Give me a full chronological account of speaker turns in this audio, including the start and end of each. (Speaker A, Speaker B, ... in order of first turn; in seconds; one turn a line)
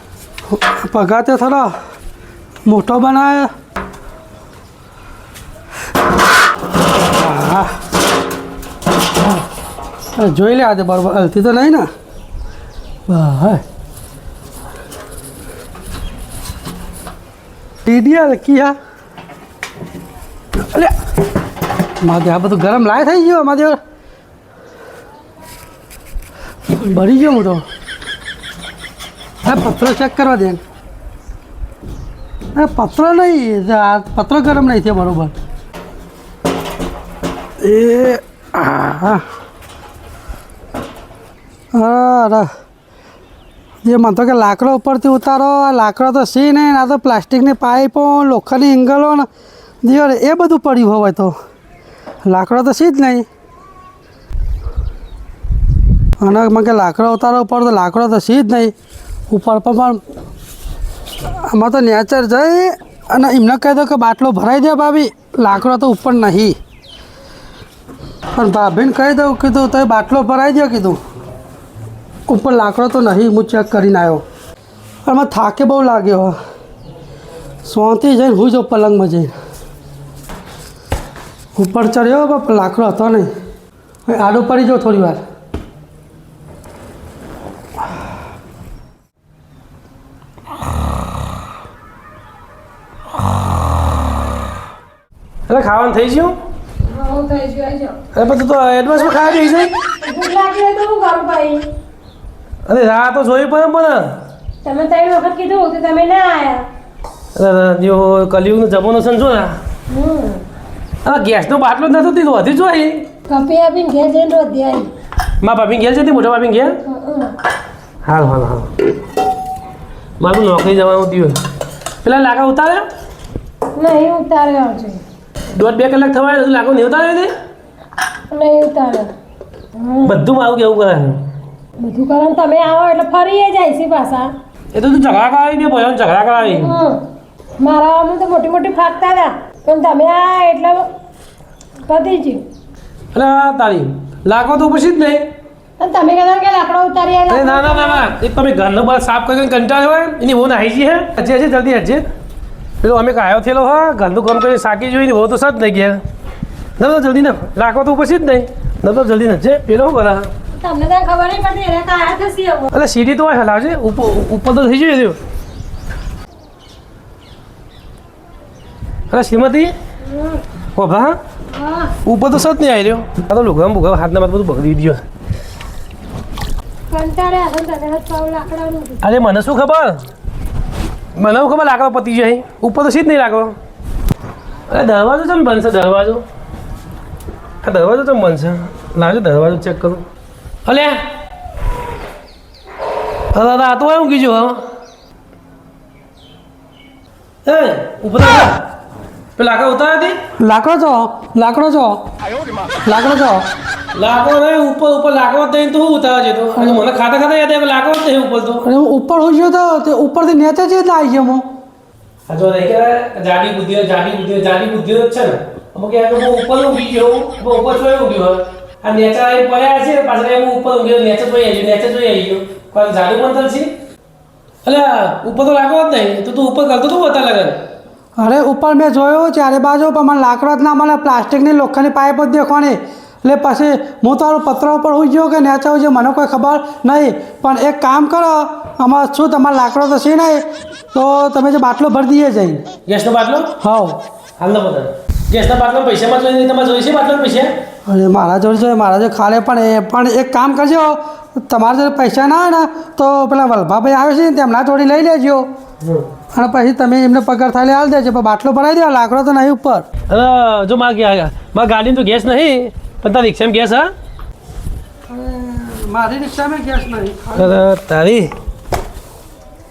Speaker A: 0.5-1.8
Speaker A: 2.6-3.5
Speaker A: 7.1-7.7
Speaker A: 10.1-11.9
Speaker A: 13.1-13.6
Speaker A: 17.9-18.8
Speaker A: 20.6-20.9
Speaker A: 22.0-23.8
Speaker A: 26.7-27.7
Speaker A: 29.4-30.6
Speaker A: 32.5-35.3
Speaker A: 37.6-39.2
Speaker A: 41.7-42.5
Speaker A: 43.8-49.3
Speaker A: 49.8-51.3
Speaker A: 52.2-53.3
Speaker A: 56.2-58.7
Speaker A: 59.3-60.0
Speaker A: 61.3-66.6
Speaker A: 68.3-71.0
Speaker A: 72.3-74.2
Speaker A: 75.0-76.3
Speaker A: 77.6-79.3
Speaker A: 81.5-83.3
Speaker A: 84.1-85.2
Speaker B: 95.5-96.3
Speaker C: 96.8-98.0
Speaker B: 98.1-99.7
Speaker C: 100.0-101.7
Speaker B: 102.7-104.2
Speaker C: 104.6-106.7
Speaker B: 107.3-109.6
Speaker C: 109.9-110.4
Speaker B: 111.0-113.0
Speaker C: 113.3-114.9
Speaker B: 115.4-116.8
Speaker C: 116.8-117.3
Speaker B: 118.0-118.7
Speaker B: 120.2-121.4
Speaker B: 122.0-122.9
Speaker C: 123.7-125.0
Speaker B: 125.5-127.3
Speaker C: 128.3-129.1
Speaker C: 129.7-130.2
Speaker B: 130.0-131.3
Speaker C: 131.8-134.3
Speaker B: 134.7-136.7
Speaker C: 136.4-137.0
Speaker C: 137.6-140.9
Speaker C: 141.9-142.4
Speaker B: 143.1-145.3
Speaker C: 145.8-148.1
Speaker B: 147.3-152.1
Speaker B: 152.8-156.0
Speaker B: 156.8-160.3
Speaker C: 160.5-162.7
Speaker B: 162.7-165.2
Speaker B: 169.1-169.7
Speaker C: 170.0-170.4
Speaker B: 170.7-171.2
Speaker C: 171.5-171.9
Speaker B: 172.0-175.0
Speaker C: 176.9-179.0
Speaker B: 179.0-180.0
Speaker B: 181.2-183.6
Speaker B: 184.7-186.2
Speaker B: 187.6-190.0
Speaker B: 190.7-191.1
Speaker B: 193.3-194.6
Speaker B: 197.4-198.6
Speaker B: 199.4-200.2
Speaker A: 200.4-202.0
Speaker A: 202.8-203.5
Speaker B: 203.9-208.7
Speaker A: 206.6-206.8
Speaker A: 208.6-211.5
Speaker B: 212.3-223.7
Speaker B: 224.7-227.6
Speaker A: 228.2-242.7
Speaker B: 242.9-243.5
Speaker A: 243.6-244.0
Speaker B: 244.4-247.5
Speaker A: 247.8-255.5
Speaker B: 255.8-256.1
Speaker A: 256.3-259.9
Speaker B: 260.1-263.9
Speaker A: 265.1-267.6
Speaker B: 267.4-268.3